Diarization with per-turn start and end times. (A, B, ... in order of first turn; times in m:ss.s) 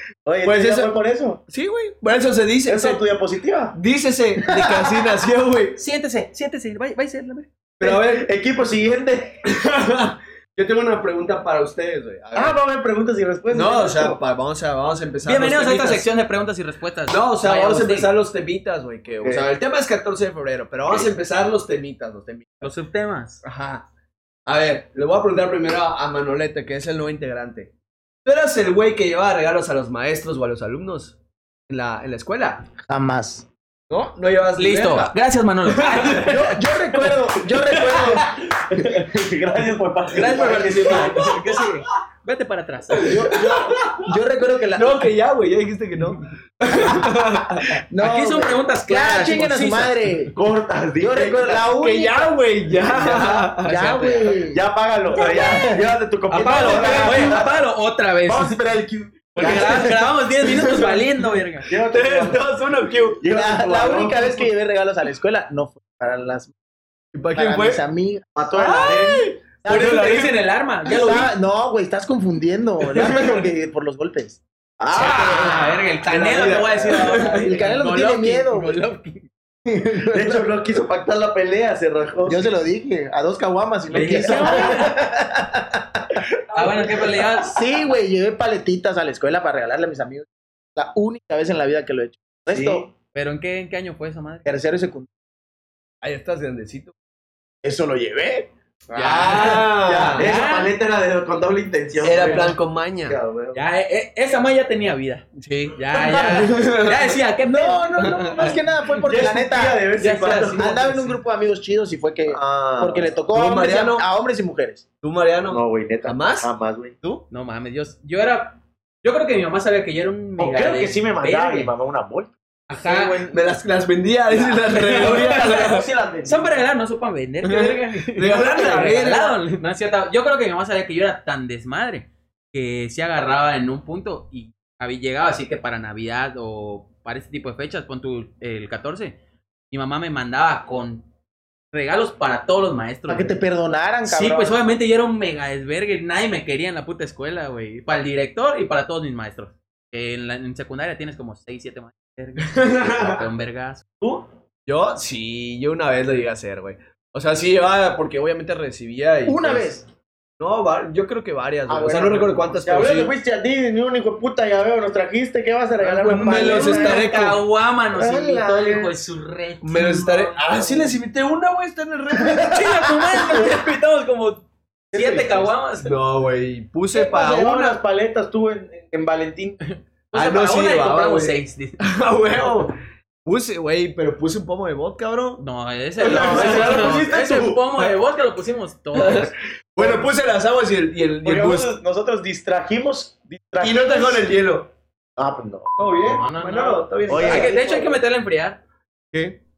0:00.2-0:01.4 A
0:00.4-0:00.9 B
0:01.5-0:03.0 B
0:02.7-0:03.8 A
0:03.7-0:05.8 B
0:04.4-0:04.8 C
0:05.8-0:07.5 D
0:07.8-0:08.3 B
0:07.8-0:09.5 A
0:09.5-0:12.6 B
0:12.3-0:14.2 A
0:13.5-0:16.1 B
0:15.2-0:18.1 D
0:17.1-0:22.7 B
0:19.2-0:19.5 A
0:22.6-0:23.4 D
0:23.4-0:23.8 B
0:24.5-0:27.7 B
0:28.2-0:31.2 B
0:31.7-0:32.7 B
0:32.8-0:33.5 C
0:33.9-0:36.5 B
0:34.6-0:36.6 D
0:36.2-0:39.0 C
0:37.1-0:38.1 B
0:37.9-0:38.2 A
0:38.8-0:41.3 A
0:40.1-0:43.3 D
0:43.0-0:44.1 B
0:43.0-0:45.1 C
0:44.8-0:47.8 B
0:47.9-0:50.3 C
0:48.0-0:50.1 D
0:50.3-0:51.7 A
0:51.0-0:52.3 C
0:51.8-0:53.7 B
0:52.9-0:53.4 A
0:53.6-0:54.6 C
0:53.6-0:54.4 D
0:54.4-0:57.5 A
0:55.2-0:57.4 C
0:56.3-0:58.6 D
0:58.3-0:59.8 A
0:58.3-0:59.1 C
0:59.4-1:01.7 D
0:59.4-1:01.1 B
1:01.7-1:02.4 A
1:01.7-1:03.2 B
1:03.2-1:04.5 A
1:03.3-1:06.5 C
1:07.1-1:07.8 B
1:07.3-1:08.3 C
1:08.4-1:09.3 A
1:08.5-1:10.4 B
1:09.6-1:10.0 C
1:09.6-1:11.3 D
1:10.8-1:14.4 C
1:12.9-1:13.5 B
1:14.8-1:15.6 A
1:14.9-1:19.3 D
1:15.0-1:15.6 C
1:15.0-1:17.5 B
1:16.3-1:17.2 A
1:17.3-1:18.8 C
1:19.7-1:20.4 C
1:20.1-1:22.6 A
1:22.3-1:25.6 C
1:23.9-1:25.0 D
1:24.0-1:25.0 A
1:26.5-1:27.6 D
1:27.5-1:32.9 C
1:32.5-1:32.9 A
1:33.1-1:34.5 D
1:34.4-1:35.1 C
1:36.0-1:36.9 B
1:37.6-1:42.6 A
1:38.9-1:39.6 D
1:39.0-1:40.3 B
1:40.1-1:40.7 D
1:42.0-1:43.2 B
1:42.1-1:42.5 D
1:43.1-1:43.6 A
1:43.5-1:49.0 D
1:45.4-1:47.2 B
1:47.4-1:49.8 C
1:49.0-1:50.7 A
1:50.0-1:51.2 D
1:50.2-1:50.5 B
1:50.4-1:54.8 C
1:52.3-1:53.1 A
1:53.3-1:54.0 B
1:55.0-1:56.5 B
1:55.5-1:57.0 A
1:57.3-2:01.7 D
2:00.4-2:02.3 A
2:02.7-2:03.3 D
2:02.9-2:03.3 A
2:03.0-2:05.9 B
2:04.7-2:05.6 D
2:04.8-2:06.5 A
2:06.2-2:19.2 D
2:07.4-2:09.4 B
2:19.7-2:21.1 D
2:21.7-2:23.4 D
2:23.1-2:24.6 C
2:24.0-2:33.8 D
2:32.4-2:33.2 B
2:34.7-2:39.8 B
2:39.3-2:39.8 C
2:40.4-2:43.1 B
2:41.7-2:47.2 A
2:41.8-2:42.3 C
2:45.8-2:47.4 B
2:46.0-2:50.6 D
2:48.0-2:49.0 A
2:49.6-2:52.7 B
2:52.4-2:54.4 D
2:54.9-2:55.5 A
2:54.9-2:55.9 D
2:55.8-2:57.8 B
2:56.9-2:59.6 A
2:59.7-3:01.8 D
3:00.1-3:05.4 B
3:05.4-3:09.3 D
3:06.0-3:07.6 A
3:06.0-3:07.0 B
3:08.9-3:11.8 B
3:09.8-3:10.1 A
3:11.2-3:14.3 A
3:13.6-3:14.7 B
3:15.2-3:15.7 A
3:15.8-3:17.9 B
3:16.0-3:18.6 D
3:17.1-3:17.8 A